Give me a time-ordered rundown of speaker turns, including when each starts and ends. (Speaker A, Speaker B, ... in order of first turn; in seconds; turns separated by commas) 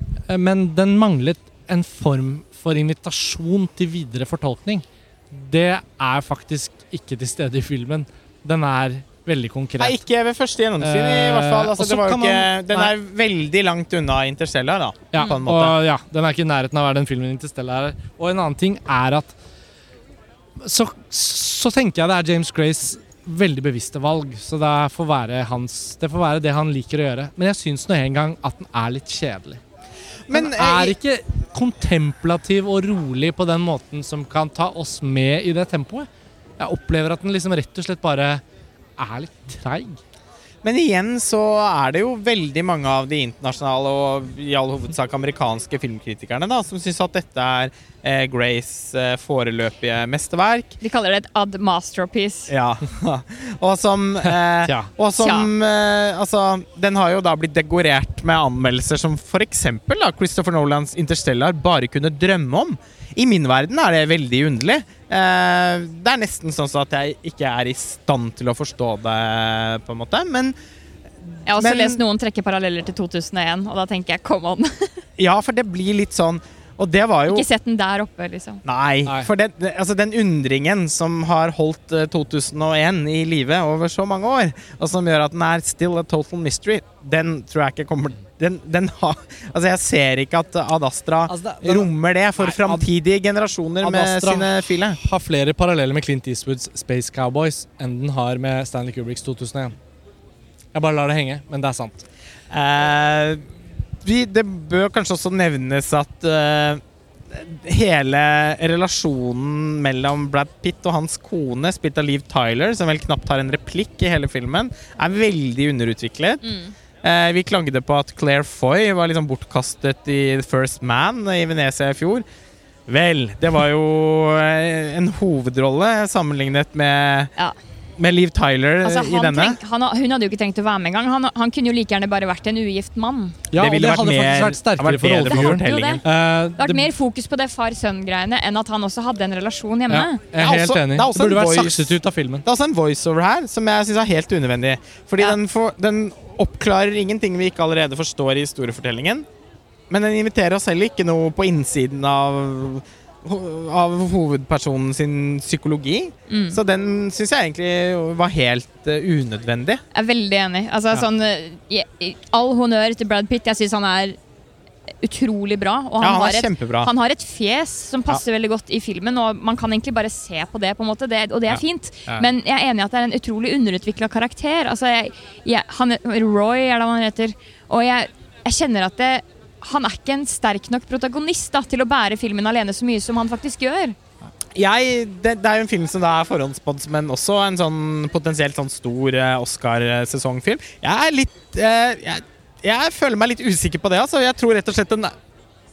Speaker A: 0.3-10.0, Speaker B: 9.8-15.8, Speaker A: 10.8-12.9, Speaker A: 15.1-19.4, Speaker A: 20.6-29.6, Speaker B: 30.3-31.0, Speaker A: 30.3-38.4, Speaker A: 39.0-40.0, Speaker B: 40.6-50.8, Speaker C: 50.8-52.5, Speaker B: 52.5-70.5, Speaker A: 54.6-54.9, Speaker C: 55.2-55.5, Speaker B: 71.2-72.0, Speaker C: 71.5-75.0, Speaker B: 75.2-77.5, Speaker C: 77.3-78.6, Speaker B: 78.7-95.0, Speaker A: 91.3-92.9, Speaker A: 93.8-99.8, Speaker A: 100.7-102.0, Speaker B: 102.5-103.5, Speaker B: 104.0-122.2, Speaker C: 116.4-116.7, Speaker B: 122.9-127.3, Speaker B: 128.0-129.6, Speaker C: 128.8-133.4, Speaker A: 133.5-136.9, Speaker B: 133.6-136.0, Speaker C: 135.3-136.0, Speaker C: 136.6-140.2, Speaker A: 139.9-142.4, Speaker B: 140.4-149.2, Speaker B: 149.9-159.8, Speaker C: 156.3-156.6, Speaker C: 159.9-164.2, Speaker C: 165.0-184.0, Speaker B: 166.0-166.9, Speaker A: 171.5-172.2, Speaker B: 184.6-195.2